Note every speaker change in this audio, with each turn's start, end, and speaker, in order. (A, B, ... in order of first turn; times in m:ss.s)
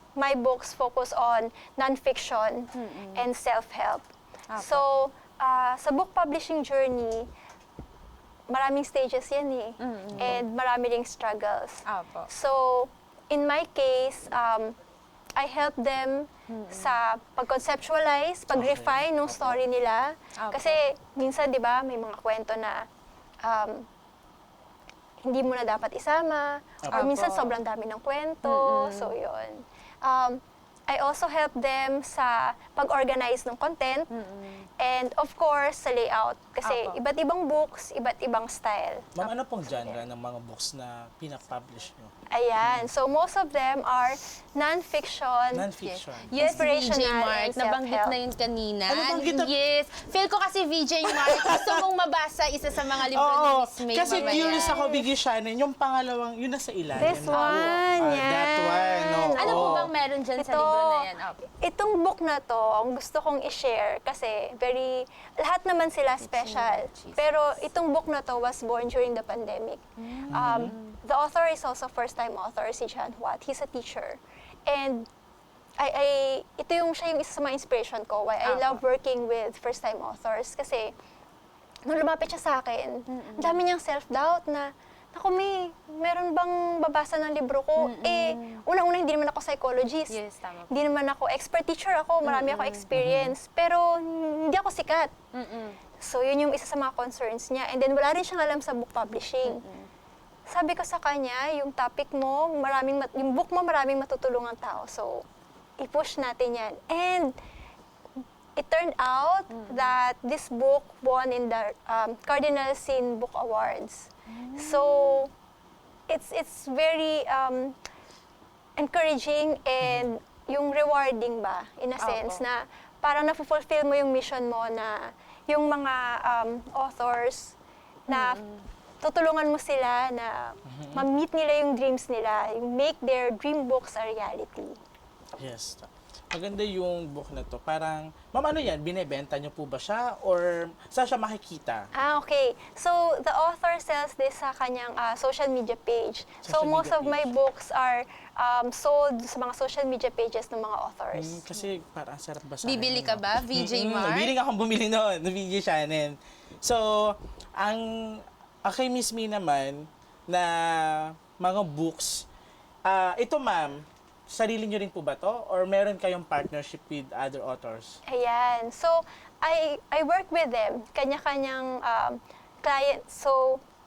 0:00.2-0:07.3 A
0:02.8-0:03.2 B
0:04.5-0:04.8 B
0:08.5-0:14.8 A
0:09.8-0:10.4 B
0:11.9-0:12.3 B
0:15.4-0:22.9 A
0:16.5-0:17.0 B
0:18.5-0:19.6 C
0:20.4-0:20.8 B
0:23.4-0:23.9 A
0:25.2-0:34.1 A
0:26.8-0:27.1 C
0:26.9-0:27.6 B
0:28.4-0:29.2 B
0:34.1-0:34.7 B
0:34.8-0:40.0 A
0:36.6-0:37.0 B
0:39.2-0:42.1 C
0:42.3-0:45.7 A
0:42.6-0:42.9 C
0:45.5-0:46.6 C
0:45.8-0:54.9 B
0:46.4-0:48.2 A
0:48.9-0:49.5 C
0:51.1-0:51.8 C
0:53.1-0:59.9 C
0:54.1-0:55.0 A
0:57.0-1:15.1 A
0:57.3-0:57.8 B
0:59.4-1:01.4 B
1:06.2-1:07.4 B
1:10.0-1:11.0 B
1:10.3-1:10.8 C
1:15.8-1:20.9 A
1:18.4-1:18.8 B
1:21.9-1:30.2 A
1:23.1-1:23.6 B
1:27.8-1:28.6 B
1:30.1-1:30.8 B
1:30.7-1:35.1 A
1:32.2-1:33.0 B
1:32.9-1:33.3 C
1:35.3-1:35.8 B
1:36.0-1:39.6 A
1:39.4-1:39.9 B
1:40.5-1:45.2 A
1:45.8-1:47.4 A
1:48.6-1:55.3 A
1:49.5-1:49.9 B
1:54.3-1:55.3 B
1:56.1-1:57.8 A
1:58.8-2:07.6 A
1:59.8-2:00.1 C
2:02.0-2:02.4 B
2:08.1-2:08.4 A
2:08.1-2:08.6 B
2:09.0-2:14.8 A
2:10.7-2:11.1 C
2:15.4-2:21.9 C
2:21.9-2:31.4 A
2:26.4-2:27.3 C
2:31.2-2:42.3 C
2:32.6-2:34.3 B
2:42.9-2:48.0 C
2:48.1-2:53.6 A